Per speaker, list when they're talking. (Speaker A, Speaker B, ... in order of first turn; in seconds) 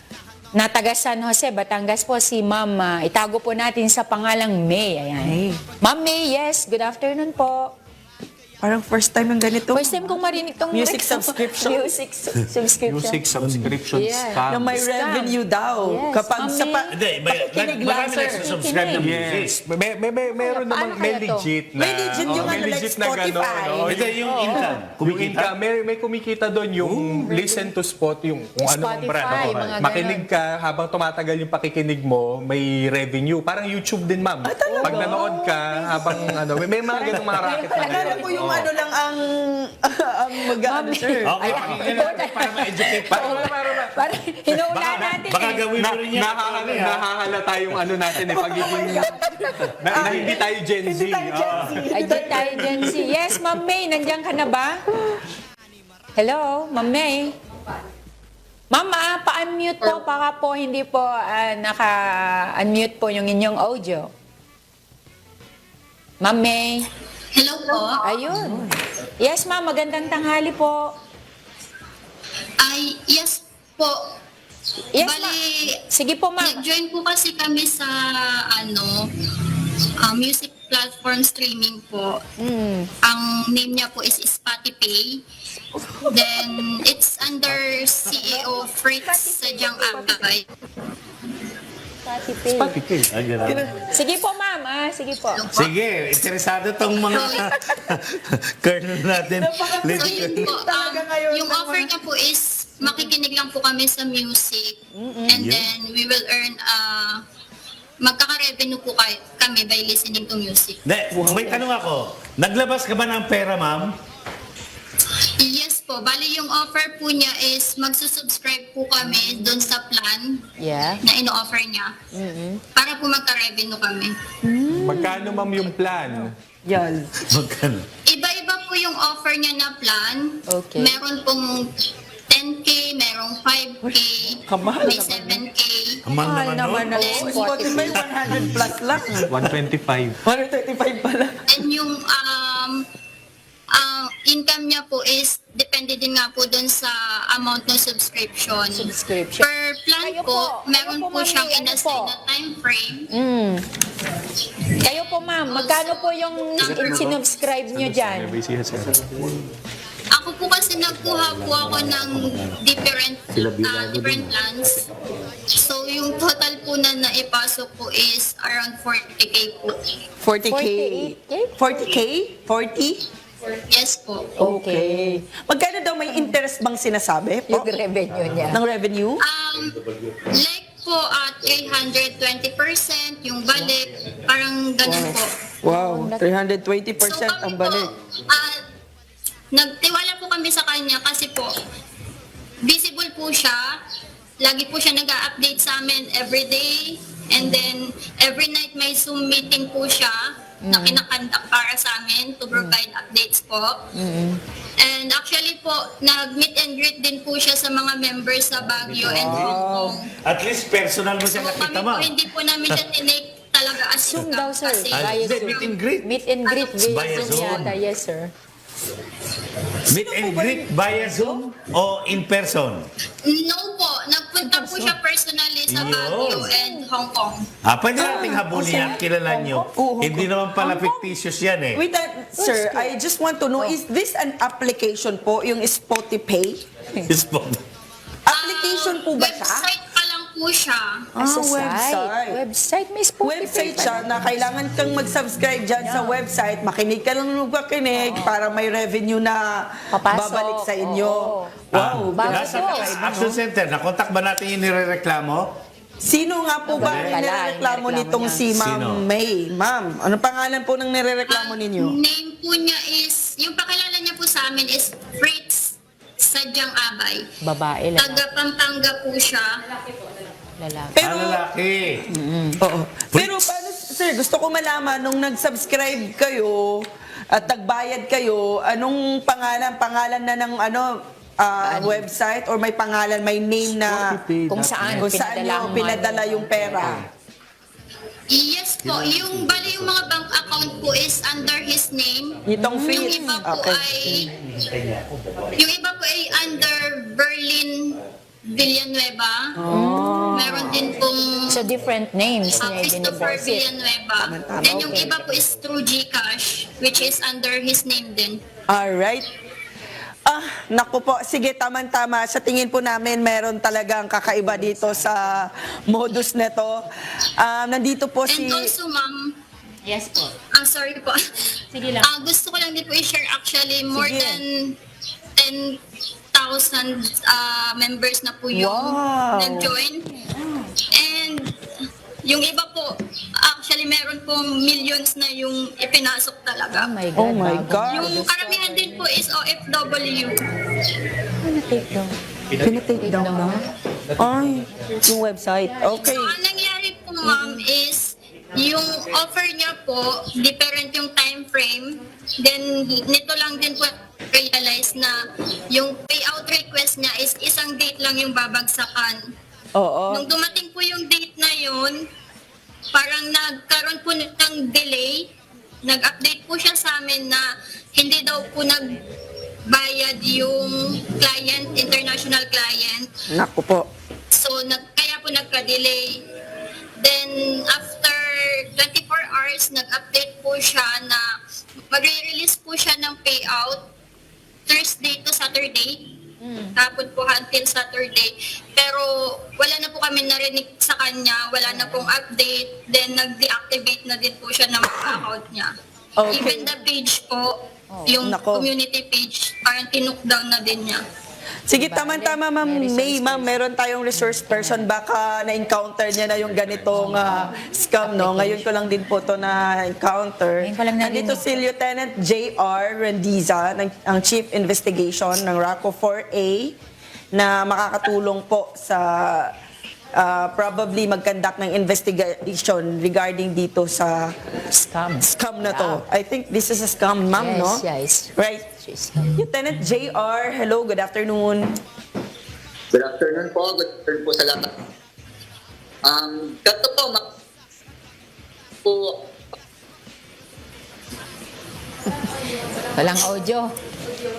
Speaker A: 0.6-7.7, 9.7-13.2, 13.9-19.0, 20.3-21.5, 24.2-24.8, 27.2-27.7, 28.6-30.3, 34.6-35.2, 37.0-38.3, 40.5-45.6, 48.8-49.5, 51.9-54.8, 56.2-57.3, 58.7-64.1, 66.2-66.9, 68.0-68.6, 69.2-70.8, 74.9-75.3, 75.9-76.6, 82.4-82.9, 88.1-90.2, 92.0-92.8, 93.9-95.4, 119.0-119.7, 120.6-121.0, 122.1-122.6, 124.5-125.3, 130.5-130.9, 136.2-138.1, 148.7-149.5, 150.0-152.1, 153.1-153.6, 154.8-158.4, 170.5-171.5, 174.4-175.2, 176.1-176.3, 177.5-178.6, 185.7-186.2, 197.4-197.7, 200.6-201.0, 203.9-204.4, 214.1-218.3, 226.5-226.8, 228.7-229.7, 230.6-231.1, 232.4-232.9, 241.2-244.5, 245.8-246.2, 247.9-248.3, 249.9-251.5, 252.1-253.4, 256.7-258.4, 267.4-268.2, 270.6-270.9, 272.1-272.6, 281.6-282.1, 284.5-287.0, 292.6-293.4, 299.7-300.5, 301.5-303.6, 314.3-315.4, 319.8-320.3, 321.7-322.1, 330.1-330.7, 336.7-339.1, 341.4-342.1, 343.0-343.6, 386.4-386.8, 391.6-392.1, 397.9-398.2, 401.8-403.5, 404.1-404.9, 406.9-407.5, 408.0-408.7, 410.6-411.4, 424.7-426.0, 427.3-429.3, 442.9-443.7
Speaker B: 5.2-5.6, 8.6-10.2, 10.7-11.9, 14.5-18.5, 21.8-24.1, 34.4-36.4, 36.9-41.7, 48.2-49.3, 49.9-53.0, 68.3-68.7, 92.5-92.9, 93.4-93.8, 97.3-97.7, 99.3-101.9, 105.0-105.4, 111.1-111.7, 124.5-125.3, 126.7-127.1, 133.8-135.4, 136.2-139.4, 140.2-141.3, 170.2-173.0, 174.4-177.7, 178.5-179.2, 184.8-187.9, 209.0-209.9, 219.9-220.7, 224.4-225.0, 227.9-229.1, 229.7-230.4, 231.7-236.6, 238.3-239.7, 241.2-242.4, 243.2-249.4, 250.0-253.4, 256.0-261.9, 270.9-271.4, 272.6-280.9, 281.4-284.2, 284.9-287.0, 292.5-294.0, 299.6-300.8, 304.2-305.1, 308.7-309.2, 310.3-316.8, 317.4-318.7, 323.9-324.4, 328.5-329.7, 337.1-338.2, 342.6-343.6, 344.2-346.4, 359.8-360.3, 373.3-373.9, 396.2-396.7, 398.2-398.7, 401.7-416.7, 417.3-419.5, 420.1-424.3, 425.3-427.8, 428.4-428.6, 429.4-431.7
Speaker C: 12.8-14.8, 18.7-24.1, 24.9-38.6, 41.5-43.9, 44.9-45.2, 45.7-49.1, 49.8-52.7, 124.8-126.3, 139.3-140.2, 156.7-157.2, 157.7-159.1, 283.8-285.2
Speaker D: 13.4-13.7, 16.9-19.6, 23.9-25.5, 26.8-27.2, 41.2-43.3, 44.6-47.0, 50.0-50.3, 92.9-93.7, 95.5-100.5, 105.3-105.7, 110.8-113.9, 127.3-127.8, 136.1-137.0, 138.0-138.7, 208.9-209.6, 210.2-212.8, 214.9-216.1, 216.8-217.8, 219.9-222.9, 225.7-226.5, 227.6-231.8, 237.1-237.6, 251.7-255.5, 256.8-257.1, 258.5-259.0, 271.0-272.1, 273.1-273.4
Speaker E: 67.3-68.2, 72.6-74.0, 75.0-75.7, 76.4-79.0, 80.0-82.2, 83.0-85.2, 86.1-90.5, 95.3-95.7, 97.1-97.5, 99.9-104.8, 105.3-107.2, 108.0-110.8, 115.4-120.4, 121.0-121.9, 122.8-124.1, 128.1-131.7, 132.3-136.0, 136.9-137.6, 141.5-142.8, 143.7-153.1, 155.4-157.1, 160.1-164.8, 165.6-169.8, 173.7-174.3, 179.2-179.7, 180.4-185.3, 187.0-188.5, 189.5-191.5, 192.7-193.6, 194.4-200.2, 200.7-203.8, 204.8-210.0, 211.2-215.8, 216.4-217.6, 223.2-227.4, 238.3-240.9, 261.3-267.2, 267.9-269.5, 288.3-292.4, 292.9-294.3, 295.6-297.9, 298.5-299.5, 300.3-301.6, 302.6-308.4, 318.3-319.3, 320.6-321.1, 322.0-324.7, 325.4-325.8, 326.3-330.0, 330.9-331.5, 332.2-336.9, 337.9-340.4, 346.1-355.2, 355.7-359.2, 360.1-361.9, 362.9-365.3, 365.9-367.4, 367.9-368.8, 369.7-373.1, 374.3-376.1, 377.0-381.2, 381.9-383.8, 384.7-386.0, 386.8-389.1, 389.6-395.7, 396.3-397.5, 398.1-401.0
Speaker F: 432.9-434.7, 436.0-437.2, 438.8-439.1